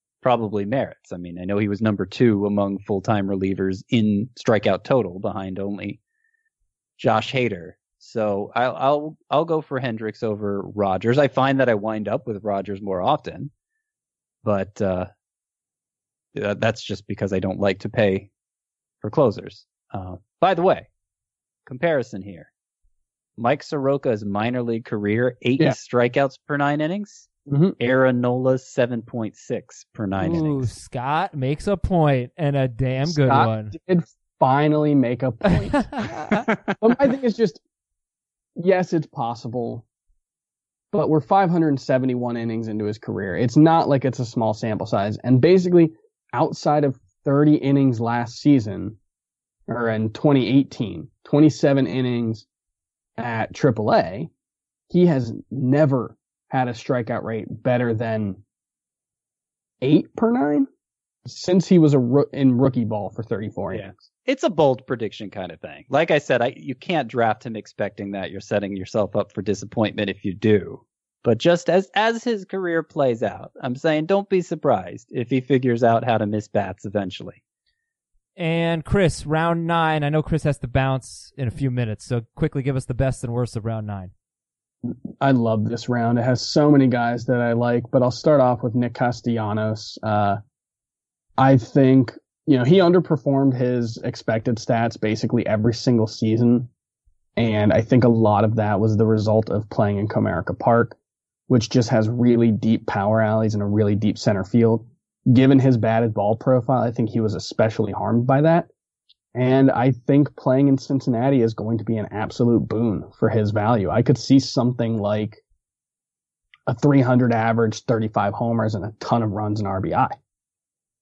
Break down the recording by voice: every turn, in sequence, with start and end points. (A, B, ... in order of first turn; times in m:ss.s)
0:00.2-0:06.0 A
0:07.0-0:13.5 A
0:14.4-0:15.1 A
0:16.3-0:18.3 A
0:19.0-0:20.9 A
0:21.6-0:22.5 A
0:23.4-0:30.7 A
0:27.5-0:27.7 B
0:30.2-0:33.7 C
0:33.1-0:37.6 B
0:35.8-0:36.4 C
0:36.5-0:36.8 A
0:38.6-0:39.8 B
0:40.9-0:49.0 B
0:49.7-0:52.4 B
0:53.2-0:54.3 B
0:54.9-0:58.4 B
0:59.8-1:00.7 B
1:01.2-1:03.9 B
1:03.7-1:17.4 A
1:18.4-1:24.1 C
1:24.8-1:30.4 B
1:31.4-1:36.7 B
1:37.4-1:41.0 B
1:41.5-1:48.7 B
1:49.3-1:55.4 B
1:56.7-2:00.2 B